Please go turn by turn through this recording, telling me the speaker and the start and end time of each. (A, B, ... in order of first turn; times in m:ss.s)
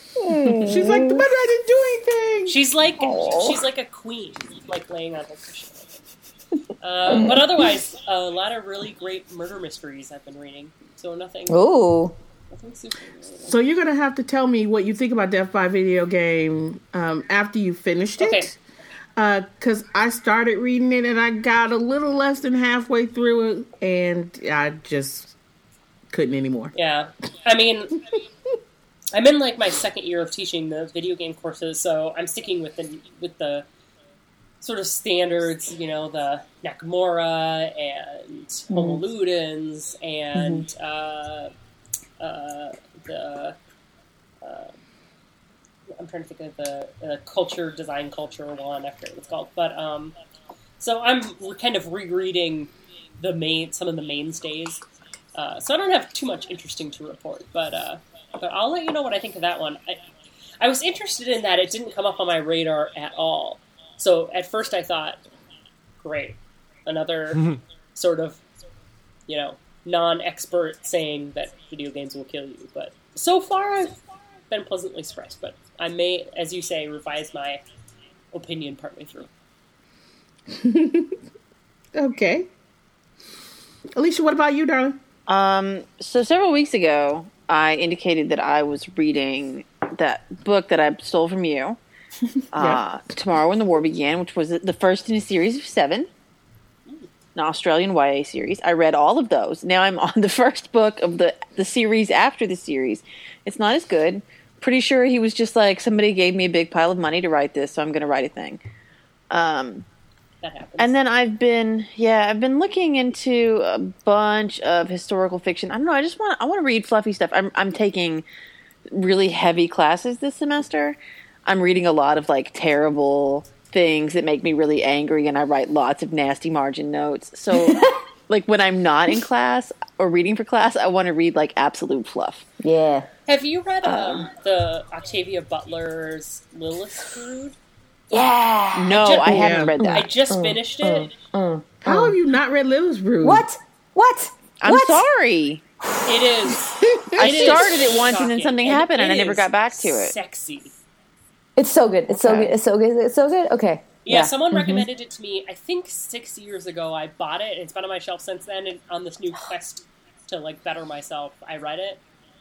0:00.2-0:01.3 A
0:00.3-0:02.6 B
0:02.5-0:05.9 C
0:03.0-0:03.6 A
0:06.8-0:11.6 C
0:07.1-0:07.5 A
0:11.5-0:12.2 A
0:12.5-0:13.5 C
0:13.5-0:18.6 B
0:18.2-0:18.5 C
0:19.2-0:25.3 B
0:26.1-0:26.7 B
0:26.7-0:28.0 C
0:29.1-0:33.6 C
0:34.6-0:41.5 C
0:38.7-0:39.0 A
0:40.4-0:40.7 A
0:42.2-0:43.6 C
0:44.4-0:44.7 C
0:45.9-0:50.1 C
0:50.8-0:54.8 C
0:55.3-1:00.0 C
1:00.6-1:05.2 C
1:06.0-1:08.4 C
1:09.3-1:14.0 C
1:14.5-1:17.6 C
1:18.3-1:19.3 C
1:20.5-1:21.2 B
1:21.9-1:22.5 B
1:24.0-1:25.0 B
1:25.3-1:31.8 D
1:32.5-1:36.1 D
1:37.3-1:48.6 D
1:49.3-1:49.8 D
1:50.4-1:51.0 C
1:50.8-1:58.2 D
1:58.9-2:12.4 D
2:07.5-2:08.0 A
2:12.6-2:13.1 A
2:13.3-2:17.6 C
2:13.8-2:14.2 D
2:18.1-2:18.9 A
2:18.7-2:20.1 D
2:18.9-2:21.1 C
2:19.2-2:19.7 B
2:19.8-2:22.2 A
2:21.8-2:23.4 B
2:23.2-2:25.0 A
2:24.6-2:25.6 D
2:26.0-2:30.7 C
2:26.7-2:27.6 B
2:27.2-2:30.1 D
2:31.6-2:34.9 A
2:32.1-2:32.5 D
2:34.0-2:42.0 C